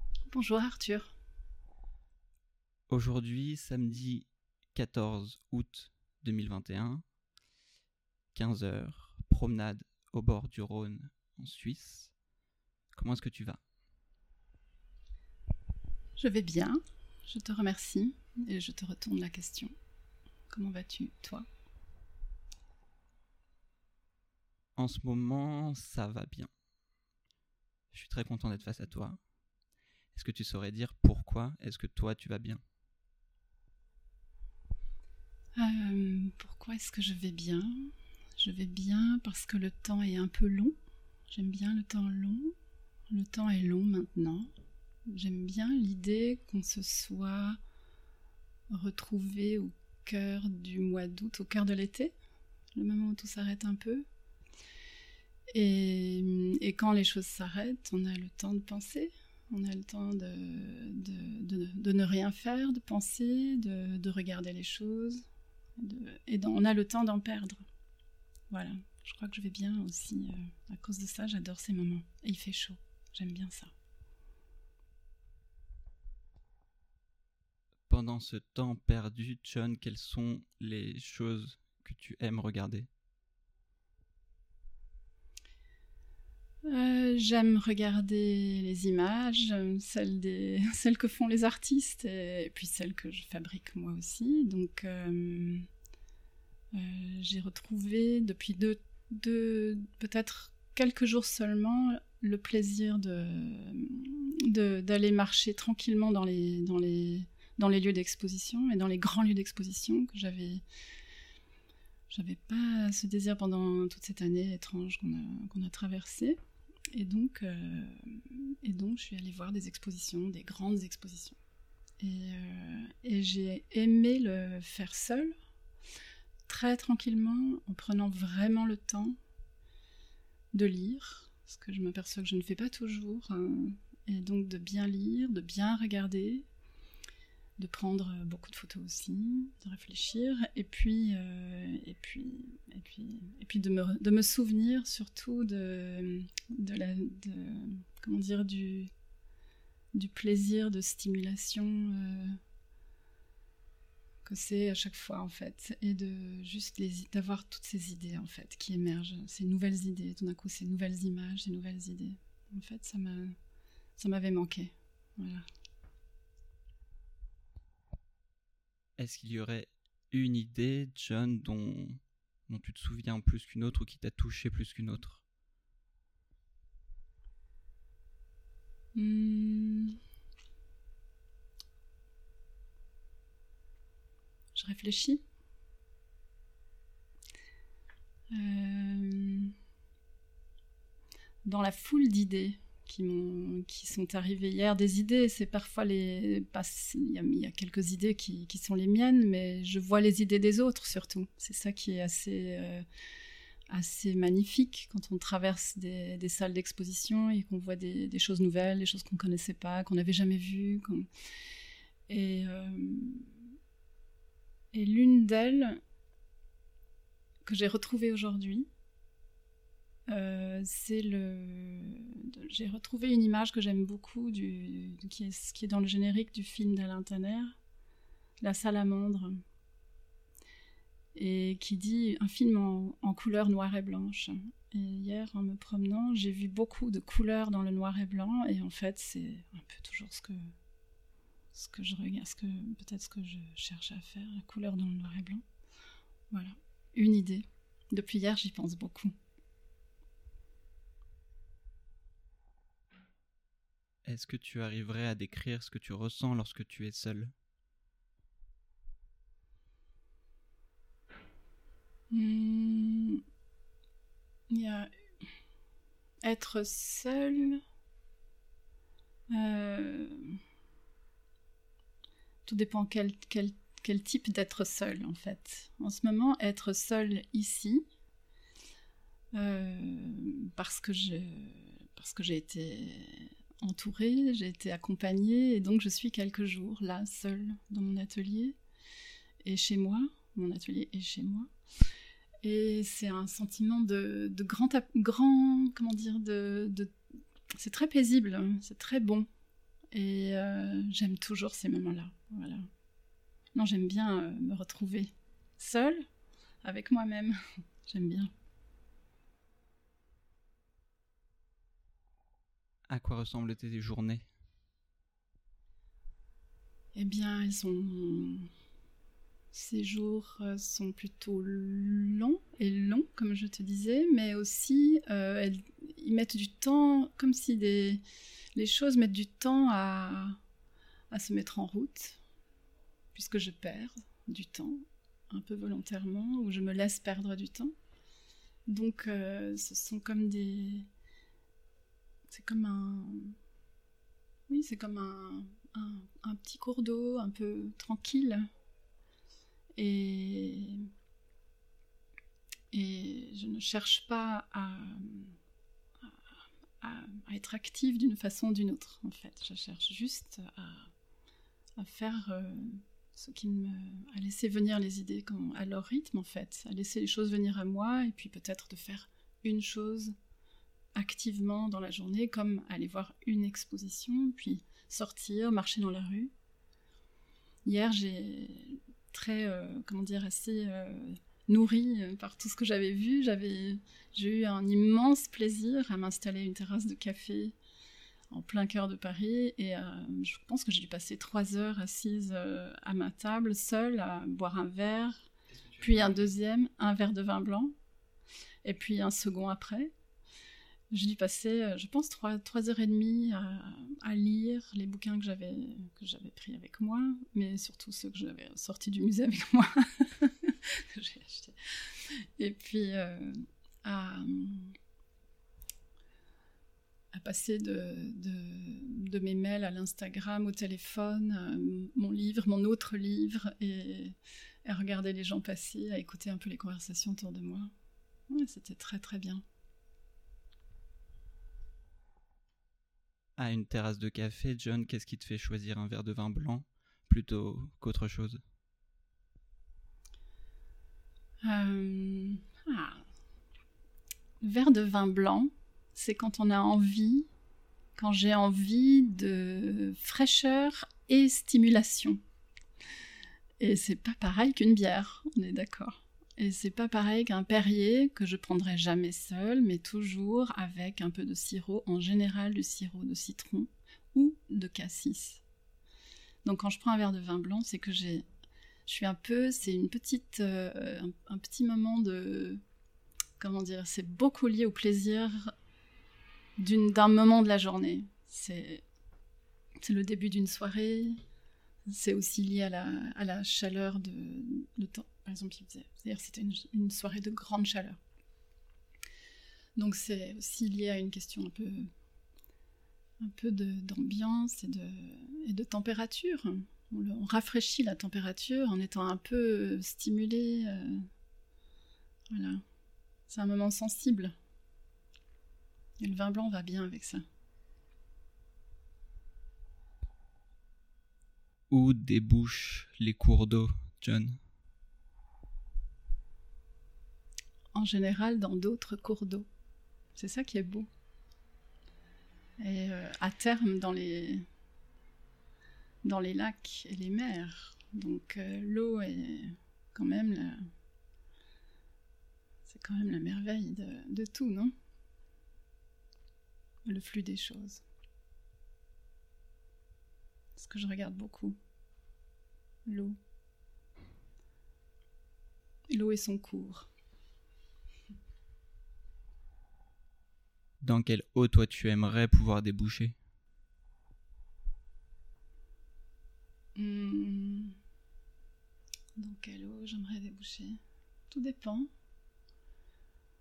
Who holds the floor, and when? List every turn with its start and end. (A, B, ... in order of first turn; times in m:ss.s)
0:00.3-0:01.2 A
0:02.9-0:07.0 B
0:08.3-0:12.1 B
0:12.9-0:13.6 B
0:16.2-0:19.7 A
0:20.5-0:21.5 A
0:24.8-0:26.5 B
0:27.9-0:29.2 B
0:30.1-0:32.6 B
0:35.6-0:40.8 A
0:41.3-0:42.5 A
0:43.1-0:44.5 A
0:45.1-0:47.6 A
0:48.7-0:52.1 A
0:52.7-0:54.0 A
0:55.5-1:05.2 A
1:05.8-1:07.6 A
1:08.5-1:13.7 A
1:17.9-1:22.9 B
1:26.7-1:35.7 A
1:36.7-1:50.6 A
1:52.1-1:56.4 A
1:56.9-2:01.4 A
2:02.0-2:05.4 A
2:06.5-2:09.2 A
2:10.5-2:16.5 A
2:17.6-2:28.9 A
2:29.9-2:32.4 A
2:34.2-2:43.3 A
2:44.0-2:45.4 A
2:49.0-2:55.2 B
2:58.9-3:00.0 A
3:04.5-3:05.2 A
3:08.3-3:09.5 A
3:11.4-3:22.8 A
3:23.7-3:31.1 A
3:32.1-3:33.5 A
3:34.7-3:35.8 A
3:37.4-3:38.7 A
3:40.1-3:47.6 A
3:48.4-3:49.3 A
3:51.1-4:00.5 A
4:01.5-4:05.4 A
4:06.3-4:09.1 A
4:14.0-4:17.3 B
4:22.1-4:23.2 A
4:24.5-4:24.9 A
4:26.2-4:27.6 A
4:29.3-4:30.4 A
4:32.5-4:37.9 A
4:39.4-4:48.6 A
4:49.4-4:51.5 A
4:52.4-4:56.9 A
4:57.6-4:59.3 A
4:59.9-5:02.7 A
5:03.6-5:06.0 A
5:06.6-5:08.3 A
5:12.9-5:14.3 B
5:16.9-5:18.5 A
5:19.5-5:28.0 A
5:28.6-5:30.4 A
5:31.1-5:32.2 A
5:33.1-5:37.7 A
5:38.7-5:40.9 A
5:42.3-5:43.4 A
5:44.5-5:48.5 A
5:49.8-5:50.9 A
5:52.7-5:55.4 A
5:56.8-6:00.9 A
6:01.8-6:10.1 A
6:11.0-6:16.3 A
6:17.6-6:27.6 A
6:28.3-6:37.7 A
6:35.6-6:35.9 B
6:38.6-6:39.9 A
6:40.9-6:54.8 A
6:57.1-7:07.7 A
7:08.3-7:09.4 A
7:13.4-7:18.4 B
7:21.4-7:23.0 A
7:24.4-7:27.3 A
7:28.0-7:32.2 A
7:33.6-7:45.4 A
7:46.4-7:48.2 A
7:48.9-7:52.6 A
7:53.4-7:55.5 A
7:56.6-7:58.8 A
7:59.8-8:01.2 A
8:01.9-8:08.0 A
8:09.8-8:11.9 A
8:13.2-8:21.0 A
8:22.3-8:22.6 A
8:23.3-8:24.3 A
8:26.0-8:27.2 A
8:31.7-8:34.4 B
8:37.7-8:39.5 A
8:40.2-8:40.9 A
8:42.6-8:44.4 A
8:46.0-8:50.6 A
8:52.6-8:54.7 A
8:56.8-8:57.8 A
9:00.5-9:01.6 A
9:02.9-9:03.2 A
9:05.9-9:06.9 A
9:10.8-9:13.2 B
9:16.8-9:17.8 A
9:19.2-9:20.8 A
9:21.3-9:21.9 A